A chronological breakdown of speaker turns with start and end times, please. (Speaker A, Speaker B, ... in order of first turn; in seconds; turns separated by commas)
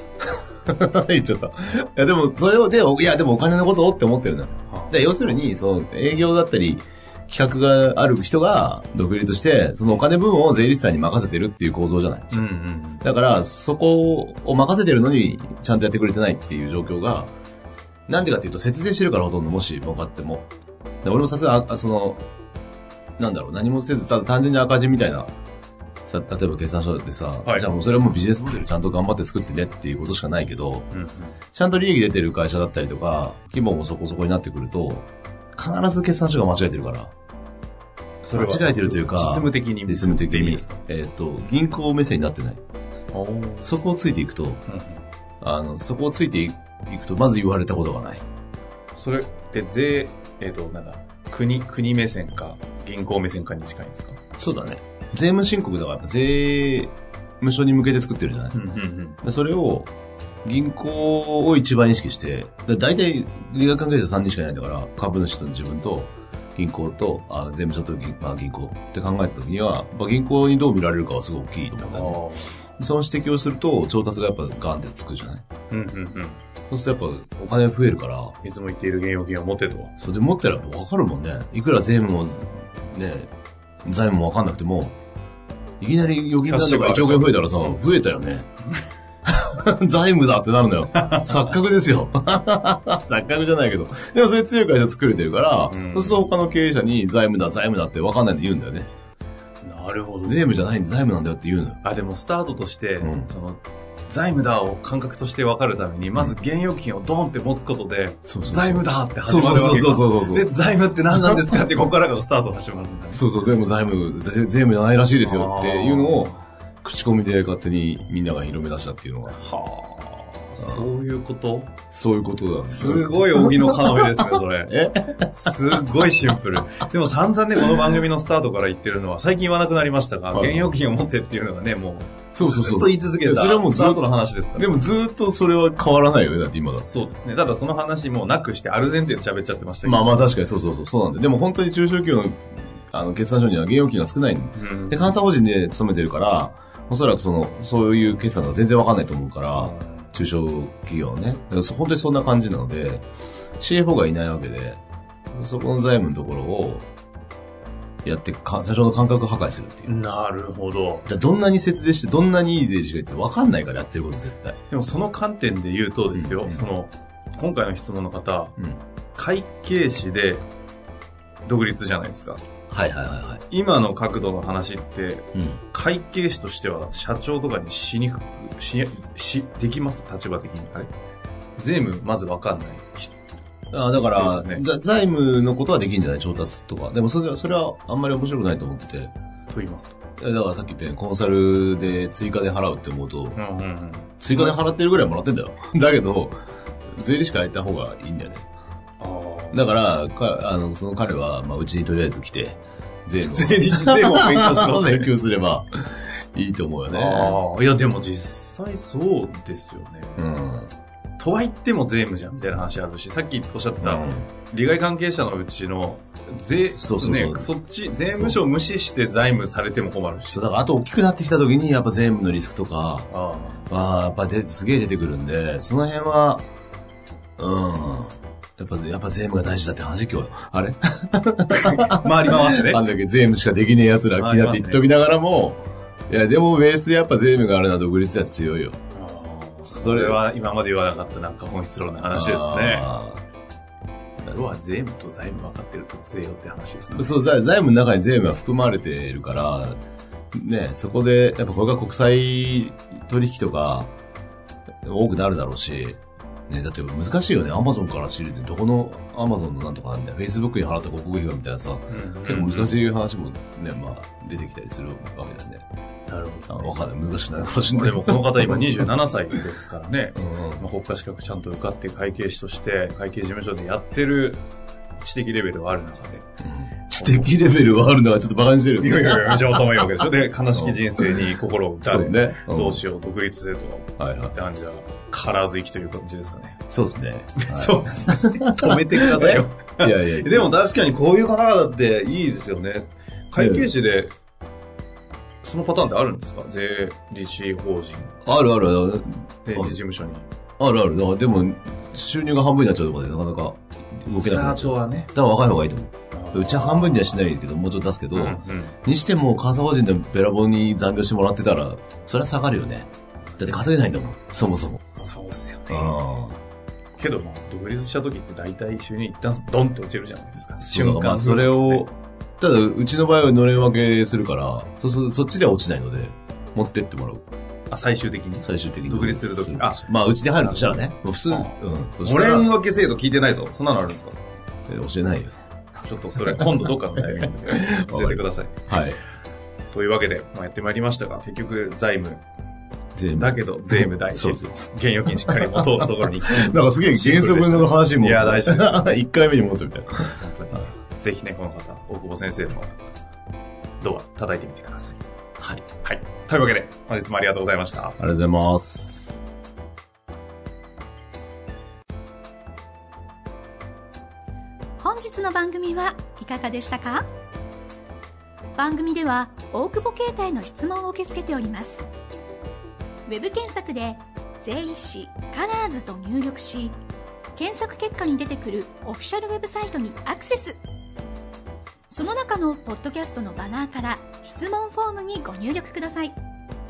Speaker A: 0.3-12.5, Speaker B: 4.7-5.4, Speaker B: 12.3-13.0, Speaker A: 13.0-17.3, Speaker A: 18.1-20.5, Speaker A: 21.0-22.2, Speaker A: 23.2-25.3, Speaker A: 26.1-30.9, Speaker B: 30.9-31.4, Speaker A: 31.5-37.1, Speaker B: 38.2-40.8, Speaker A: 38.3-42.6, Speaker B: 43.1-43.7, Speaker A: 43.6-44.6, Speaker B: 44.7-45.0, Speaker A: 45.4-48.2, Speaker B: 48.9-54.2, Speaker A: 54.4-58.6, Speaker B: 58.5-59.2, Speaker A: 59.2-59.9, Speaker A: 60.4-72.2, Speaker B: 71.8-72.6, Speaker A: 72.8-75.4, Speaker B: 75.7-76.4, Speaker A: 76.7-78.3, Speaker B: 78.4-79.9, Speaker A: 80.0-83.3, Speaker A: 83.8-85.0, Speaker A: 85.8-88.5, Speaker B: 86.4-87.8, Speaker A: 89.2-98.9, Speaker B: 95.7-96.3, Speaker B: 99.6-100.5, Speaker A: 100.2-101.8, Speaker B: 101.8-113.2, Speaker A: 103.0-103.3, Speaker A: 108.2-110.5, Speaker A: 111.1-111.4, Speaker A: 113.1-119.4, Speaker B: 115.2-116.4, Speaker B: 119.3-121.8, Speaker A: 120.6-120.9, Speaker A: 121.9-125.8, Speaker B: 122.6-134.7, Speaker A: 130.3-130.8, Speaker A: 132.3-137.0, Speaker B: 136.9-140.3, Speaker A: 139.8-153.0, Speaker B: 144.5-145.2, Speaker B: 149.6-150.1, Speaker A: 153.6-154.8, Speaker A: 155.3-156.8, Speaker A: 158.0-159.9, Speaker B: 159.8-161.1, Speaker A: 161.1-164.6, Speaker B: 164.7-168.5, Speaker A: 166.1-166.6, Speaker B: 169.1-170.4, Speaker B: 171.4-172.4, Speaker A: 172.7-173.4, Speaker B: 173.5-180.9, Speaker A: 175.3-175.6, Speaker B: 181.6-183.1, Speaker A: 183.7-189.1, Speaker B: 184.1-184.6, Speaker B: 189.5-190.0, Speaker A: 190.2-193.4, Speaker B: 193.3-194.6, Speaker A: 194.2-196.4, Speaker A: 196.9-198.4, Speaker B: 199.0-199.6, Speaker A: 199.5-207.4, Speaker B: 203.2-205.1, Speaker B: 206.9-210.3, Speaker A: 210.2-210.7, Speaker B: 211.2-220.4, Speaker A: 213.8-214.3, Speaker A: 216.5-217.5, Speaker A: 218.1-218.4, Speaker A: 220.3-223.1, Speaker B: 223.1-223.7, Speaker A: 223.7-226.5, Speaker A: 227.4-238.8, Speaker B: 231.5-232.8, Speaker B: 234.2-234.9, Speaker B: 238.9-242.9, Speaker A: 239.6-240.2, Speaker A: 242.1-243.2, Speaker B: 244.2-247.1, Speaker A: 246.9-249.8, Speaker A: 250.3-253.9, Speaker A: 254.8-265.6, Speaker B: 261.9-262.7, Speaker B: 266.1-266.7, Speaker A: 266.5-268.8, Speaker B: 267.7-274.4, Speaker A: 270.1-270.6, Speaker B: 275.0-276.2, Speaker A: 276.4-279.6, Speaker B: 276.9-277.3, Speaker B: 278.8-286.6, Speaker A: 280.5-281.2, Speaker A: 281.8-282.8, Speaker A: 284.0-284.3, Speaker A: 286.7-290.5, Speaker B: 287.4-294.1, Speaker A: 293.4-293.7, Speaker B: 295.4-298.2, Speaker A: 298.2-299.8, Speaker B: 299.4-300.3, Speaker A: 300.6-314.9, Speaker B: 304.2-305.1, Speaker B: 306.1-307.2, Speaker B: 308.1-308.8, Speaker B: 314.9-316.0, Speaker A: 315.7-316.4, Speaker B: 317.0-321.8, Speaker A: 320.6-327.2, Speaker B: 327.7-334.2, Speaker A: 328.4-332.6, Speaker A: 334.7-335.3, Speaker B: 335.8-338.7, Speaker A: 337.2-339.0, Speaker B: 339.7-342.2, Speaker A: 342.9-350.2, Speaker B: 343.1-349.0, Speaker B: 350.2-352.7, Speaker B: 353.8-355.0, Speaker A: 355.4-355.6, Speaker B: 355.8-358.0, Speaker A: 358.0-359.2, Speaker C: 364.8-367.1, Speaker C: 368.6-371.9, Speaker C: 373.1-376.8, Speaker C: 377.4-380.6, Speaker C: 381.9-386.1